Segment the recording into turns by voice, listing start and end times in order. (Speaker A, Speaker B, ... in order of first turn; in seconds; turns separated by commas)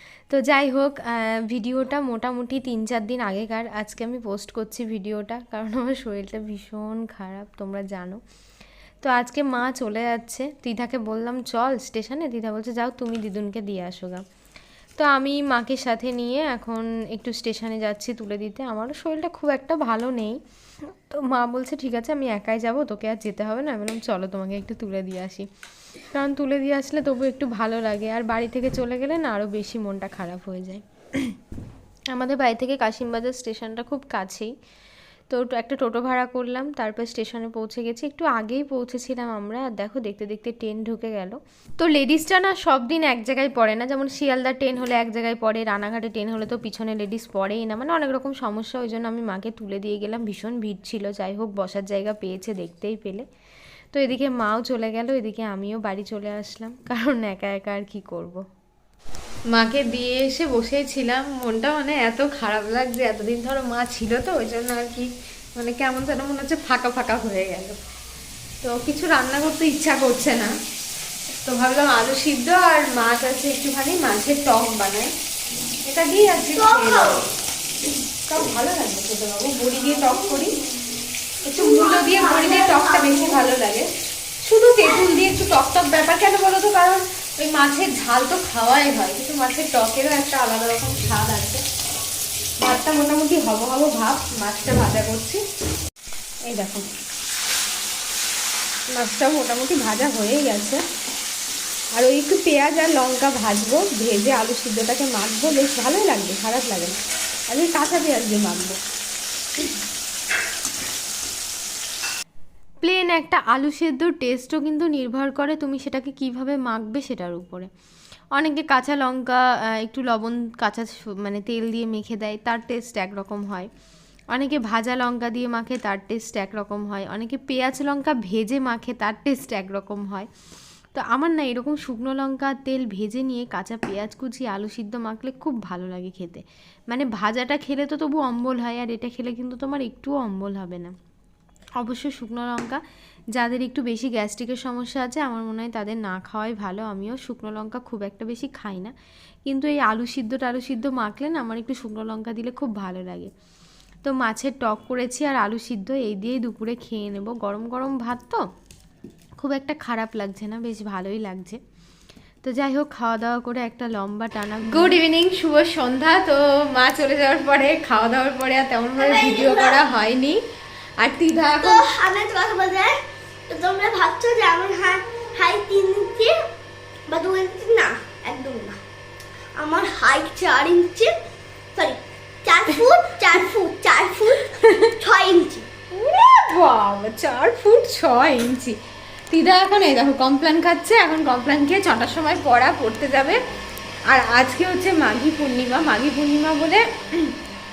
Speaker A: 0.3-8.2, Speaker A: 9.0-14.2, Speaker A: 15.0-20.4, Speaker A: 21.1-25.5, Speaker A: 26.1-31.3, Speaker A: 32.1-34.5, Speaker A: 35.3-53.3, Speaker A: 53.9-58.4, Speaker A: 59.5-67.8, Speaker A: 68.6-70.5, Speaker A: 71.3-75.1, Speaker A: 75.9-77.2, Speaker B: 76.5-77.2, Speaker A: 78.3-80.6, Speaker A: 81.5-83.9, Speaker B: 81.6-83.4, Speaker A: 84.4-91.6, Speaker A: 92.6-95.4, Speaker A: 96.5-96.9, Speaker A: 99.0-100.8, Speaker A: 102.0-107.0, Speaker A: 107.5-108.8, Speaker A: 112.8-117.7, Speaker A: 118.4-123.7, Speaker A: 124.3-130.3, Speaker A: 130.9-140.9, Speaker A: 141.8-142.8, Speaker A: 143.4-148.9, Speaker A: 149.5-153.3, Speaker A: 154.0-158.4, Speaker A: 159.4-161.6, Speaker A: 162.4-170.4, Speaker B: 169.0-169.8, Speaker A: 171.0-171.9, Speaker B: 171.6-173.0, Speaker B: 173.5-176.4, Speaker B: 177.1-178.8, Speaker B: 179.6-181.1, Speaker B: 181.8-184.4, Speaker A: 184.6-184.9, Speaker B: 185.0-185.7, Speaker A: 185.9-188.8, Speaker A: 189.3-193.4, Speaker A: 194.1-197.3